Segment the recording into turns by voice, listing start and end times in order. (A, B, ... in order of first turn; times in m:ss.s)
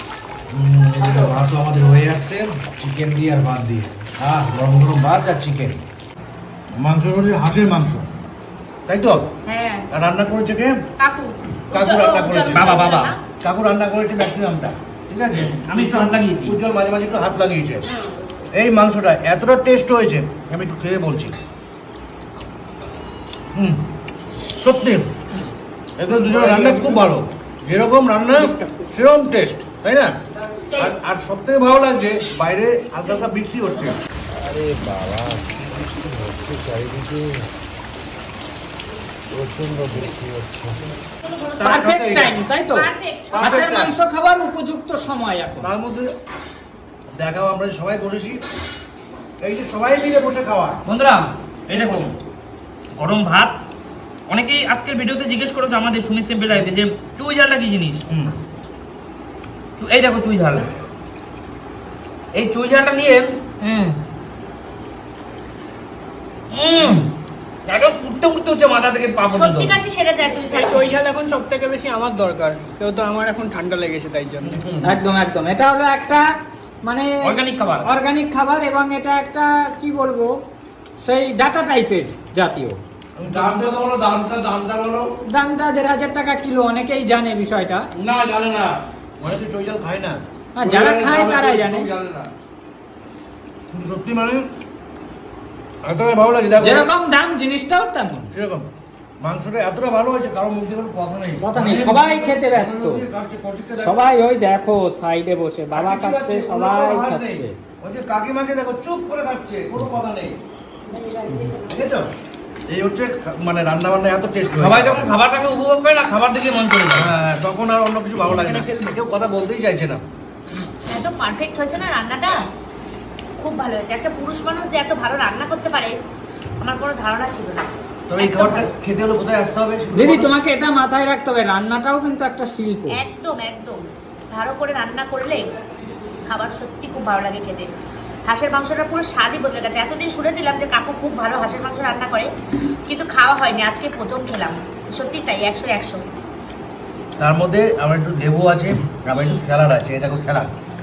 0:00.5-0:05.8 A
0:06.8-0:08.1 A
0:08.9-0:09.3 A
0:09.4-0:09.8 B
0:09.9-0:10.8 A
0:11.0-0:13.2 B
0:11.7-0:12.7 A
0:12.5-0:13.1 C
0:13.4-0:17.8 A
0:15.4-0:16.6 C
0:18.5-0:21.3 A
0:23.5-0:23.8 A
0:24.6-0:25.1 A
0:26.0-0:30.1 A
0:26.2-0:27.0 D
0:28.3-0:28.9 D
0:30.7-0:37.5 A
0:39.3-0:40.8 A
0:41.6-0:42.4 A
0:41.6-0:45.7 E
0:42.7-0:43.5 B
0:43.3-0:44.0 A
0:45.6-0:46.1 A
0:47.1-0:48.4 A
0:49.4-0:50.8 A
0:50.8-0:52.1 C
0:51.7-0:52.1 A
0:52.9-0:53.6 C
0:54.3-0:58.0 C
0:58.1-0:58.4 A
0:59.8-1:00.7 C
1:02.3-1:04.0 C
1:06.5-1:07.1 C
1:07.6-1:09.8 C
1:09.3-1:10.9 B
1:10.4-1:14.6 D
1:14.4-1:15.0 A
1:14.8-1:16.2 E
1:16.8-1:17.1 E
1:17.2-1:17.9 C
1:17.8-1:20.3 E
1:21.0-1:22.8 E
1:23.2-1:25.1 A
1:25.3-1:27.9 E
1:27.9-1:32.3 A
1:30.6-1:31.9 E
1:33.7-1:34.5 A
1:35.8-1:36.9 A
1:36.6-1:38.3 E
1:38.3-1:38.7 A
1:39.2-1:44.0 A
1:41.4-1:43.0 E
1:43.8-1:47.5 E
1:45.7-1:50.4 A
1:50.9-1:51.6 B
1:51.5-1:52.0 A
1:52.7-1:55.1 A
1:54.6-1:57.1 C
1:56.9-2:00.0 A
2:00.9-2:02.4 B
2:03.4-2:06.0 B
2:06.6-2:08.7 B
2:08.1-2:10.3 A
2:09.9-2:13.0 E
2:12.9-2:15.5 B
2:16.2-2:17.7 B
2:18.2-2:22.3 B
2:22.8-2:26.0 B
2:27.2-2:30.5 A